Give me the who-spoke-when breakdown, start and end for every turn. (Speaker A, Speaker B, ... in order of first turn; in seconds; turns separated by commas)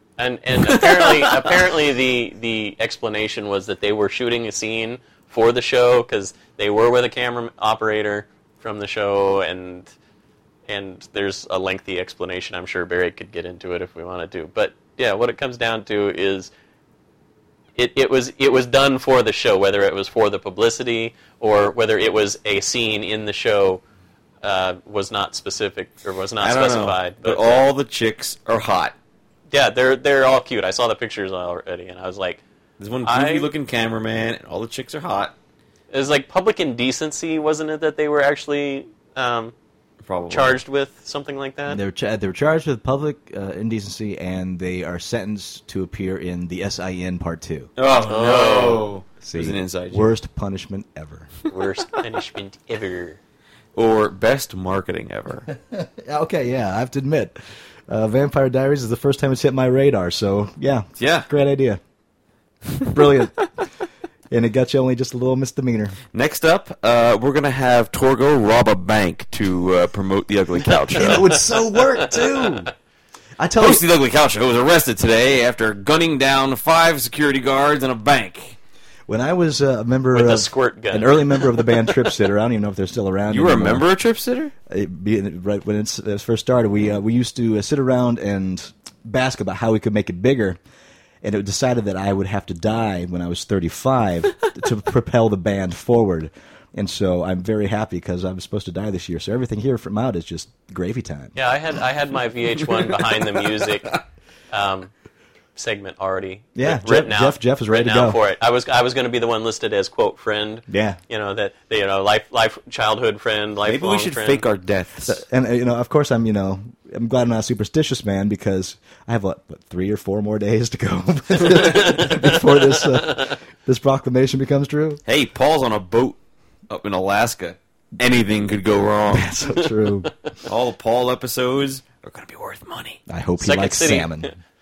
Speaker A: 0.2-9.9, Speaker B: 0.7-1.5, Speaker A: 10.7-16.5, Speaker A: 17.8-23.8, Speaker A: 24.4-27.6, Speaker B: 26.4-28.9, Speaker A: 29.5-32.4, Speaker B: 32.8-35.3, Speaker A: 33.0-33.5, Speaker A: 35.9-39.5, Speaker B: 40.0-40.6, Speaker A: 40.3-41.8, Speaker C: 41.7-47.7, Speaker B: 47.8-50.1, Speaker A: 48.0-48.9, Speaker C: 49.2-51.4, Speaker A: 51.5-53.2, Speaker B: 53.8-55.5, Speaker C: 55.6-57.3, Speaker C: 57.9-61.8, Speaker B: 61.0-61.3, Speaker C: 62.9-63.5, Speaker C: 64.3-66.0, Speaker B: 66.1-71.3, Speaker C: 70.9-72.7, Speaker C: 73.4-73.8, Speaker B: 73.6-78.6, Speaker C: 79.1-83.8, Speaker A: 80.1-81.9, Speaker B: 83.3-84.5, Speaker C: 84.7-90.6, Speaker C: 91.2-101.3, Speaker A: 101.3-103.9, Speaker B: 102.6-103.3, Speaker A: 104.5-104.9, Speaker A: 105.5-114.4, Speaker C: 106.5-108.2, Speaker C: 110.7-111.0, Speaker B: 113.7-115.2, Speaker C: 115.1-125.0, Speaker A: 121.8-122.2, Speaker B: 125.0-126.2, Speaker B: 126.7-129.4, Speaker C: 129.1-130.1, Speaker B: 130.4-133.0, Speaker C: 133.1-134.3, Speaker A: 133.4-134.3